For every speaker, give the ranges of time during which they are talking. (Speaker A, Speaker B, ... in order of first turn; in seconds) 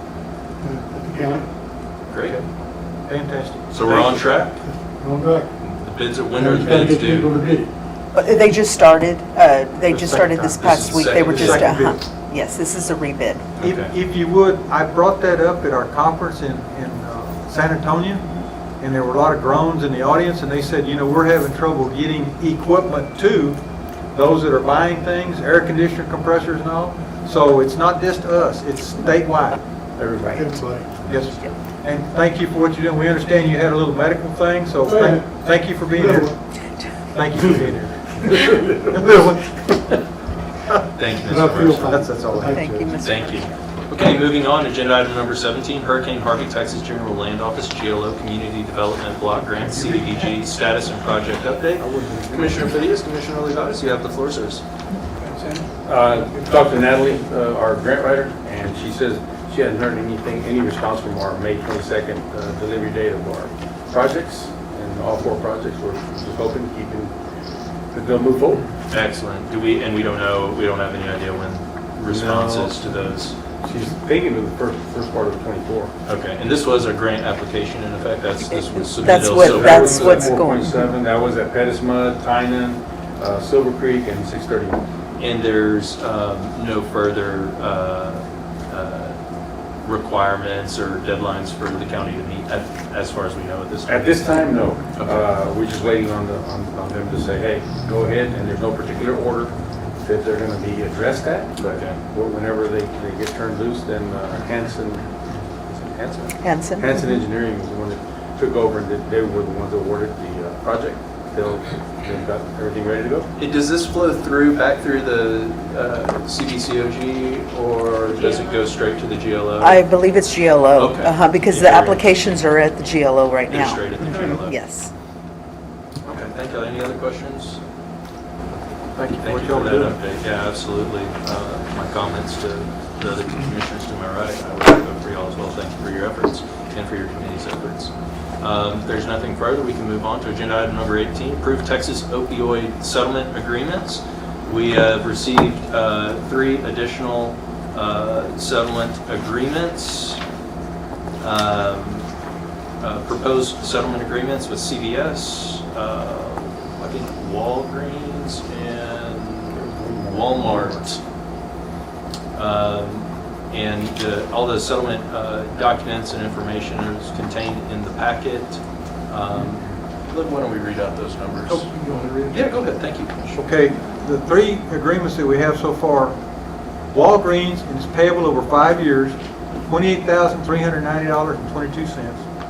Speaker A: 0.6-1.5, 4.6-5.5, 6.3-7.7, 30.3-30.9, 34.8-35.3, 36.0-36.3, 41.2-42.6
Speaker B: 2.1-2.4, 3.7-4.6, 5.6-7.3, 10.6-11.7, 13.6-13.9, 40.9-41.9, 43.0-54.6, 68.9-73.4, 76.0-80.3, 85.2-89.2, 89.8-94.3, 95.0-95.3, 101.6-102.0, 113.4-119.9, 120.7-122.1, 123.5-124.5, 126.0-127.6, 129.2-150.2, 151.2-152.1, 152.8-161.0, 162.3-171.7, 172.3-173.4
Speaker C: 2.2-2.5, 3.0-4.5, 9.9-12.1, 13.6-18.2, 18.8-23.6, 24.1-29.6, 31.0-36.4, 37.1-39.8, 41.9-43.0, 128.9-130.0, 173.4-176.2, 176.9-179.2, 179.7-182.2
Speaker D: 8.1-13.5, 42.4-43.5, 79.0-80.7, 106.4-106.8, 119.6-124.9
Speaker E: 30.0-30.5, 51.8-52.6, 55.8-67.1, 67.9-68.7, 72.0-72.9, 73.6-75.9, 79.3-84.8, 93.8-113.3, 159.5-160.8